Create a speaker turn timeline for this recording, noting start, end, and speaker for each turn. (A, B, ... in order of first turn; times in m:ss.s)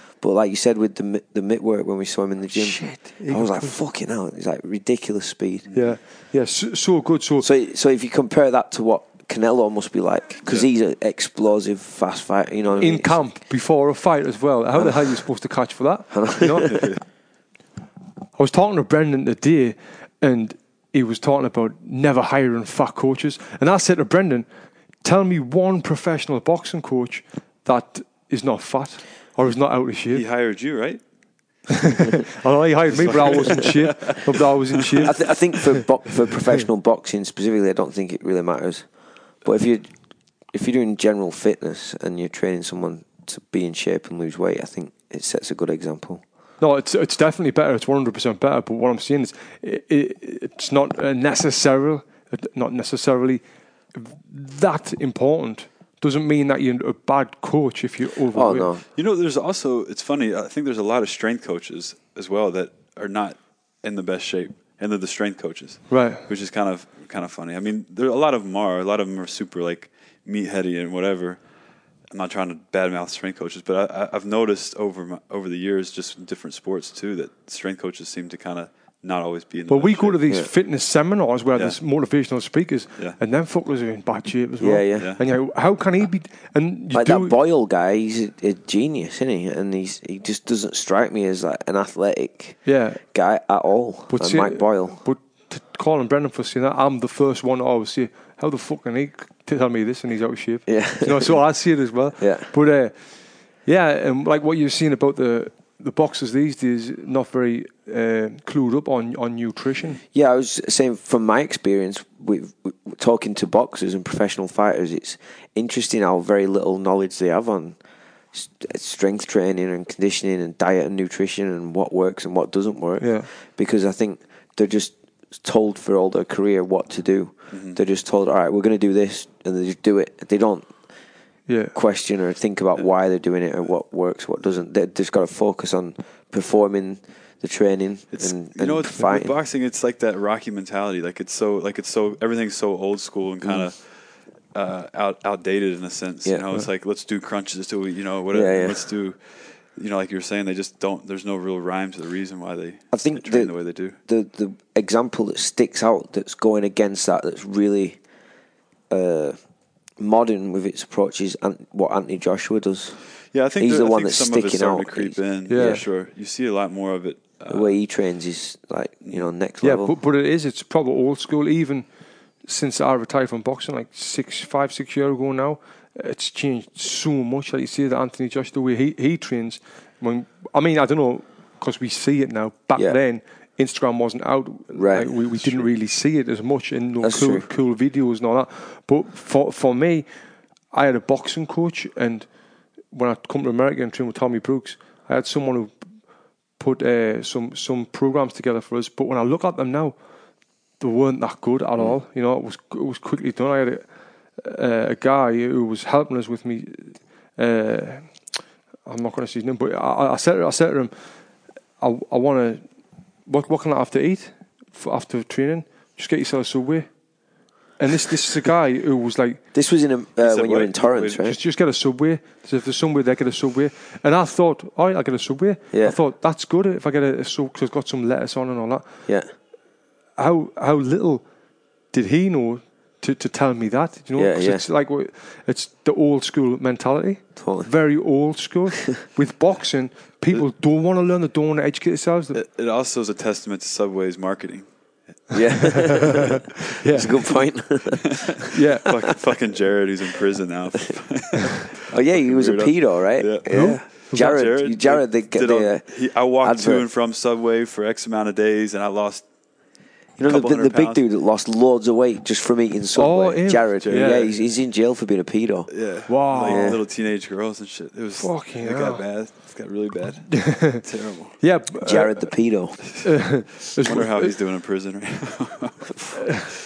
0:00.2-0:05.7 A
0:02.5-0:03.8 B
0:05.7-0:07.5 B
0:07.4-0:13.2 A
0:12.8-0:16.8 B
0:16.2-0:16.9 A
0:16.7-0:17.0 C
0:18.4-0:24.4 B
0:25.0-0:30.2 B
0:30.1-0:31.0 C
0:31.7-0:35.8 B
0:33.0-0:34.4 C
0:35.0-0:38.8 A
0:39.4-0:39.9 A
0:40.5-0:46.2 A
0:46.6-0:53.4 B
0:54.0-0:58.7 B
0:58.3-0:58.8 A
0:59.0-1:11.4 C
1:05.9-1:06.2 B
1:12.1-1:20.2 C
1:19.7-1:27.4 B
1:24.6-1:25.1 A
1:26.9-1:35.0 A
1:32.6-1:33.0 B
1:34.1-1:43.0 B
1:40.7-1:41.4 A
1:42.2-1:42.5 A
1:43.6-1:50.0 B
1:50.1-1:57.8 A
1:58.3-2:10.7 A
2:03.0-2:03.3 B
2:07.5-2:07.8 C
2:11.5-2:11.7 B
2:11.7-2:19.3 A
2:18.1-2:23.9 C
2:23.4-2:23.7 A
2:24.5-2:29.2 C
2:28.3-2:28.8 A
2:29.8-2:34.0 C
2:32.9-2:38.0 A
2:38.9-2:39.4 A
2:40.0-2:43.0 A
2:43.3-2:47.7 C
2:43.6-2:45.8 A
2:45.5-2:45.8 B
2:47.5-2:49.9 A
2:49.6-2:51.8 B
2:52.4-3:10.1 B
3:04.7-3:05.1 A
3:07.0-3:07.5 A
3:10.7-3:12.3 B
3:12.9-3:15.7 B
3:16.6-3:20.0 B
3:20.8-3:23.8 B
3:24.4-3:28.1 B
3:28.9-3:30.9 B
3:31.8-3:32.6 B
3:33.3-3:36.9 B
3:37.8-3:39.4 B
3:39.5-3:41.4 A
3:40.2-3:41.2 C
3:41.2-3:48.9 B
3:45.7-3:46.0 A
3:50.2-3:51.2 B
3:51.9-4:02.4 B
3:54.2-3:54.6 A
3:57.4-3:57.7 A
4:02.4-4:04.7 C
4:05.3-4:08.4 A
4:05.7-4:07.4 B
4:07.9-4:19.2 C
4:08.5-4:08.9 B
4:11.9-4:15.9 A
4:13.5-4:14.4 B
4:16.4-4:16.9 A
4:20.2-4:25.7 A
4:20.2-4:21.0 C
4:23.0-4:24.3 B
4:23.8-4:24.3 C
4:25.7-4:31.4 C
4:26.1-4:26.8 B
4:26.3-4:26.8 A
4:28.2-4:29.0 B
4:30.3-4:30.8 B
4:31.4-4:32.3 B
4:31.8-4:32.8 A
4:33.0-4:34.3 B
4:33.8-4:36.1 C
4:36.2-4:36.5 B